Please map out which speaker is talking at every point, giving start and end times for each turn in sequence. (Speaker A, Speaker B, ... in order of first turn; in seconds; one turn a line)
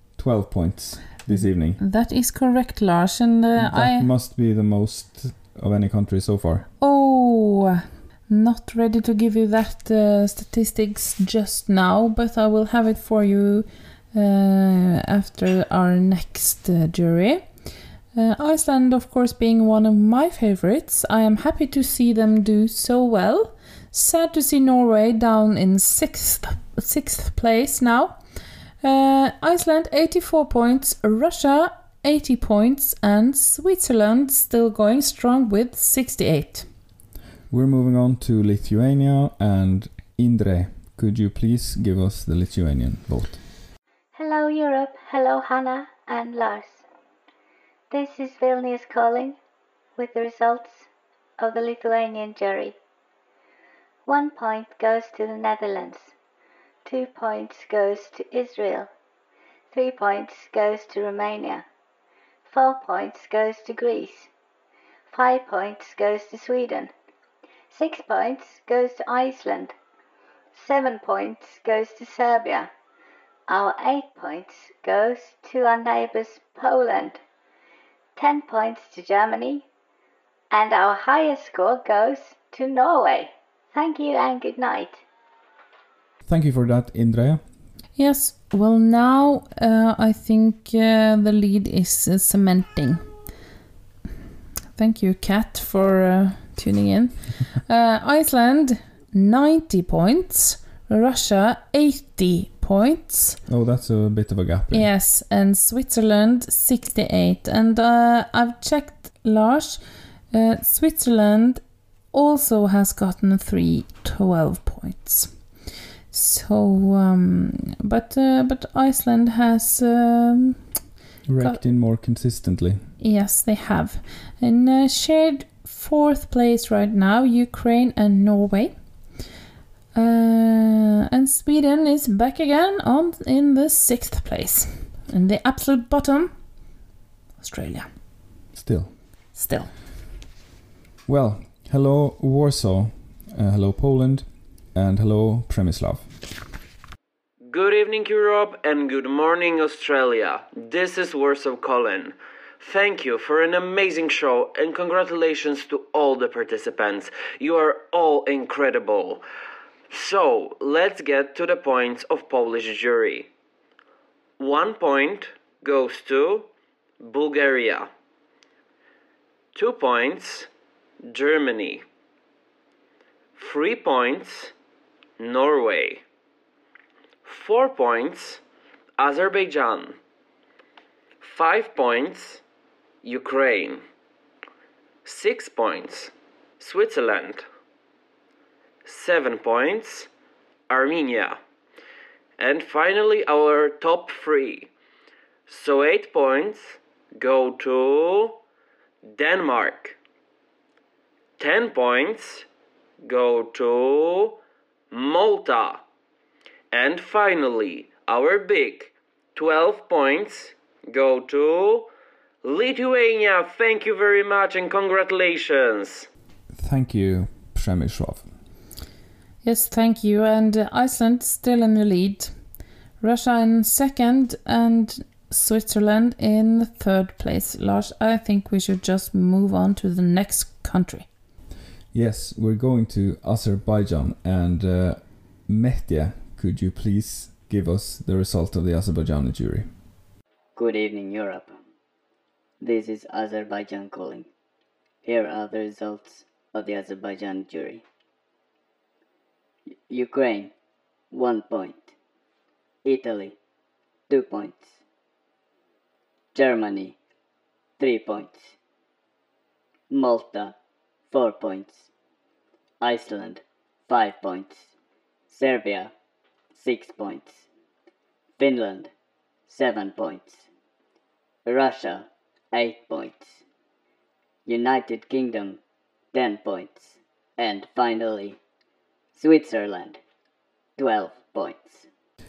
Speaker A: 0.2-1.8
Speaker B: 1.3-4.1
Speaker A: 3.6-6.7
Speaker B: 6.8-17.5
Speaker B: 18.1-28.2
Speaker B: 28.8-36.7
Speaker A: 37.5-43.4
Speaker C: 44.1-46.9
Speaker C: 47.9-49.4
Speaker C: 50.0-50.9
Speaker C: 51.4-52.8
Speaker C: 54.1-56.1
Speaker C: 56.9-58.9
Speaker C: 59.7-61.6
Speaker C: 62.5-64.3
Speaker C: 65.1-66.9
Speaker C: 67.7-69.7
Speaker C: 70.5-72.7
Speaker C: 73.5-77.2
Speaker C: 78.2-79.6
Speaker C: 80.5-85.0
Speaker A: 86.2-87.4
Speaker B: 88.0-93.1
Speaker B: 94.7-103.4
Speaker A: 103.5-104.9
Speaker B: 104.7-109.8
Speaker B: 110.3-111.6
Speaker B: 112.1-115.3
Speaker B: 116.1-120.6
Speaker A: 121.3-122.8
Speaker B: 123.0-128.7
Speaker B: 129.9-136.3
Speaker B: 137.4-137.9
Speaker A: 138.5-138.9
Speaker B: 139.3-139.7
Speaker A: 141.1-146.2
Speaker D: 147.4-159.2
Speaker D: 159.9-163.3
Speaker D: 164.4-166.5
Speaker D: 167.0-167.9
Speaker D: 169.6-170.5
Speaker D: 171.1-171.8
Speaker D: 173.4-174.5
Speaker D: 175.2-176.0
Speaker D: 177.3-178.4
Speaker D: 179.0-180.0
Speaker D: 181.2-182.4
Speaker D: 183.0-183.8
Speaker D: 185.1-187.4
Speaker D: 188.9-190.1
Speaker D: 190.7-191.4
Speaker D: 192.4-194.7
Speaker D: 195.5-198.4
Speaker D: 199.1-200.0
Speaker D: 201.4-202.4
Speaker D: 203.0-204.4
Speaker D: 204.9-205.8
Speaker D: 206.7-211.9
Speaker D: 212.4-216.1
Speaker A: 216.5-218.3
Speaker B: 219.4-222.3
Speaker B: 223.0-231.1
Speaker A: 231.9-239.7
Speaker E: 240.6-241.5
Speaker E: 242.6-244.2
Speaker E: 245.1-246.7
Speaker E: 247.3-247.8
Speaker E: 249.9-250.5
Speaker E: 251.2-251.7
Speaker E: 252.9-253.2
Speaker E: 254.1-254.6
Speaker E: 256.4-256.7
Speaker E: 257.8-258.3
Speaker E: 259.9-260.3
Speaker E: 271.5-271.9
Speaker E: 272.6-273.1
Speaker E: 276.2-276.7
Speaker E: 279.2-279.9
Speaker E: 280.8-281.6